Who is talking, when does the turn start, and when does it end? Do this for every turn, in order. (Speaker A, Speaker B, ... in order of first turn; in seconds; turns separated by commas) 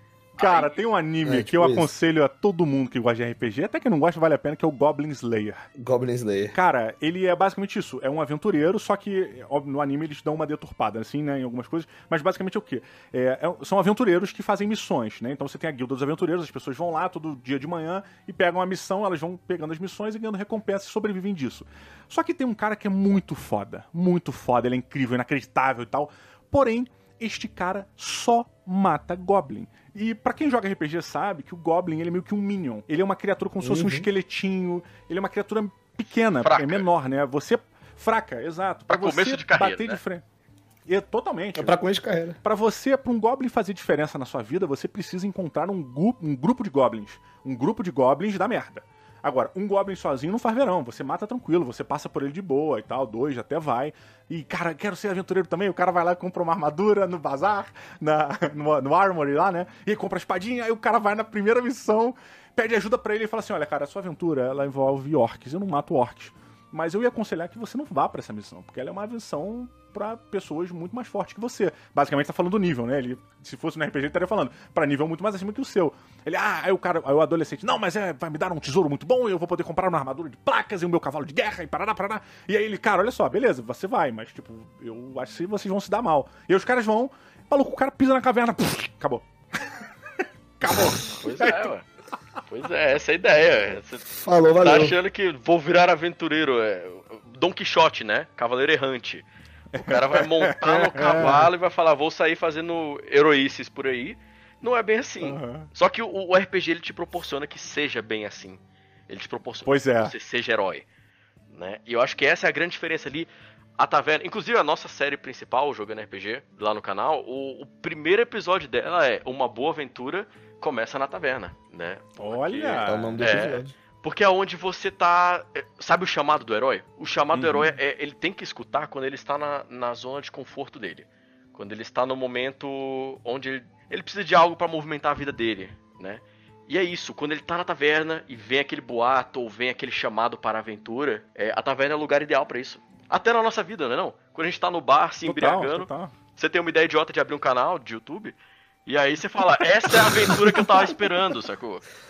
Speaker A: 0.4-5.6, Speaker B: 0.4-0.8, Speaker C: 1.2-1.9, Speaker C: 5.8-6.5, Speaker A: 6.5-40.2, Speaker C: 33.6-34.1, Speaker B: 36.4-36.8, Speaker B: 38.9-40.0, Speaker A: 40.9-41.8, Speaker C: 41.5-42.4, Speaker A: 42.4-89.8, Speaker A: 90.6-91.7, Speaker B: 90.7-91.8, Speaker B: 92.5-94.1, Speaker C: 94.1-95.0, Speaker B: 94.6-99.2, Speaker A: 99.7-101.5, Speaker B: 99.8-110.8, Speaker A: 105.2-105.7, Speaker A: 109.7-110.1, Speaker B: 111.5-151.8, Speaker A: 122.2-123.3, Speaker C: 122.8-123.7, Speaker A: 127.3-127.7, Speaker A: 145.2-146.1